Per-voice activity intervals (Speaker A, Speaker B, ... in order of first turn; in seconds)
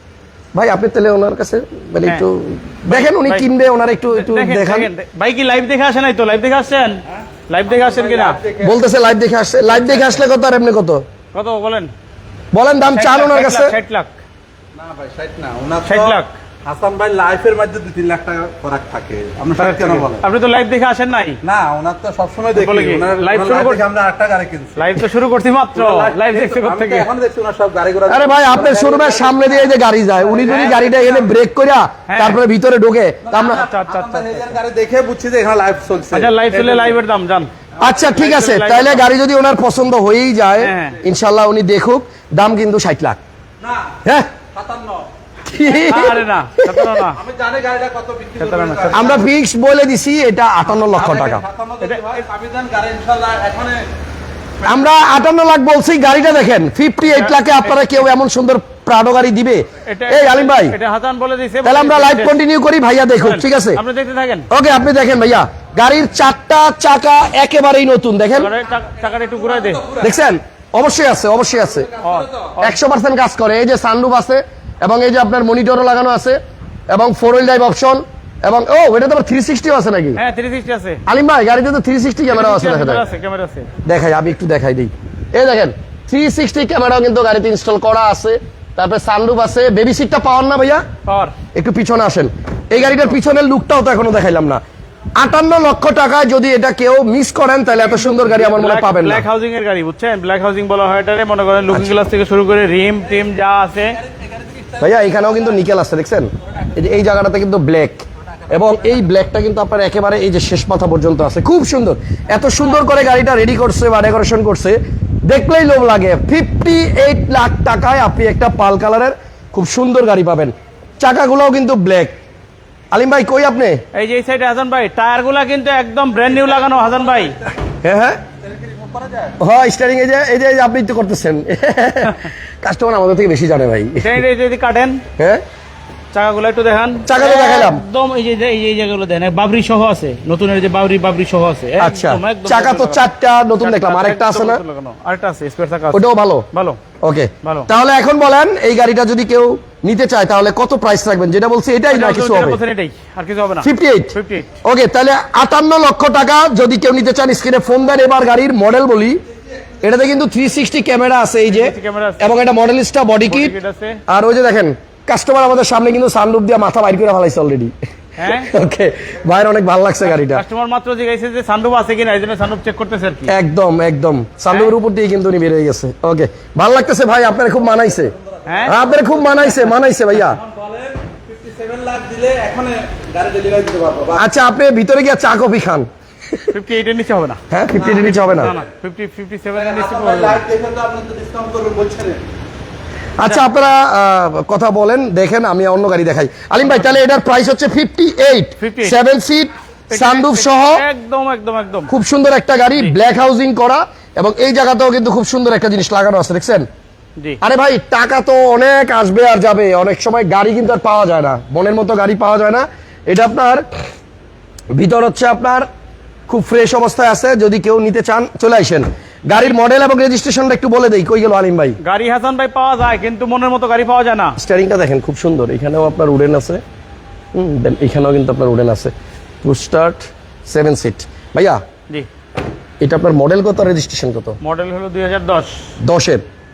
Speaker A: 0.5-4.9, 8.6-11.0, 12.5-13.7, 28.1-33.7, 37.8-43.2, 44.0-44.3, 45.5-47.0, 48.9-51.4, 54.6-60.8, 61.6-63.8, 64.5-68.5, 70.0-71.9, 72.6-80.2, 81.0-83.0, 83.8-90.8, 91.5-94.6, 95.2-99.2, 104.8-122.1, 122.9-123.8, 127.8-128.2, 129.4-134.2, 135.2-135.4, 137.1-137.8, 141.8-144.6, 145.9-146.5, 147.0-152.6, 153.6-159.2, 159.8-163.6, 164.1-170.4, 173.3-178.1, 178.7-180.4, 184.2-186.5, 187.5-188.5, 193.2-200.8, 201.9-206.7, 207.4-213.7, 214.7-215.7, 216.3-221.8, 224.4-226.6, 227.3-231.6, 232.8-234.4, 235.8-236.2
Speaker B: 2.9-3.5, 4.1-8.4, 9.9-10.2, 11.3-11.9, 12.9-14.2, 15.8-16.3, 19.6-21.4, 22.5-23.8, 24.8-27.1, 30.5-30.7, 32.1-32.4, 33.4-34.5, 36.1-39.0, 40.6-41.0, 45.6-47.2, 48.4-49.1, 51.8-52.1, 57.1-57.9, 59.9-62.4, 63.2-64.5, 68.3-69.9, 72.0-72.7, 80.2-81.0, 82.3-83.7, 91.0-91.3, 97.9-104.0, 123.9-127.4, 134.0-135.0, 136.1-143.1, 143.6-146.8, 147.4-147.7, 151.9-154.6, 161.5-162.3, 163.3-164.0, 168.2-168.5, 170.1-173.3, 178.4-178.7, 186.5-187.4, 188.3-190.4, 198.6-199.0, 199.9-201.9, 221.8-224.4, 234.4-235.7
Speaker C: 7.7-8.8, 14.7-20.2, 21.4-25.0, 25.7-31.3, 33.3-37.0, 43.6-44.0, 44.5-45.1, 47.1-49.2, 50.9-53.9, 69.6-70.0, 104.4-104.8, 128.5-129.3, 180.4-184.2, 187.8-188.5, 189.5-192.2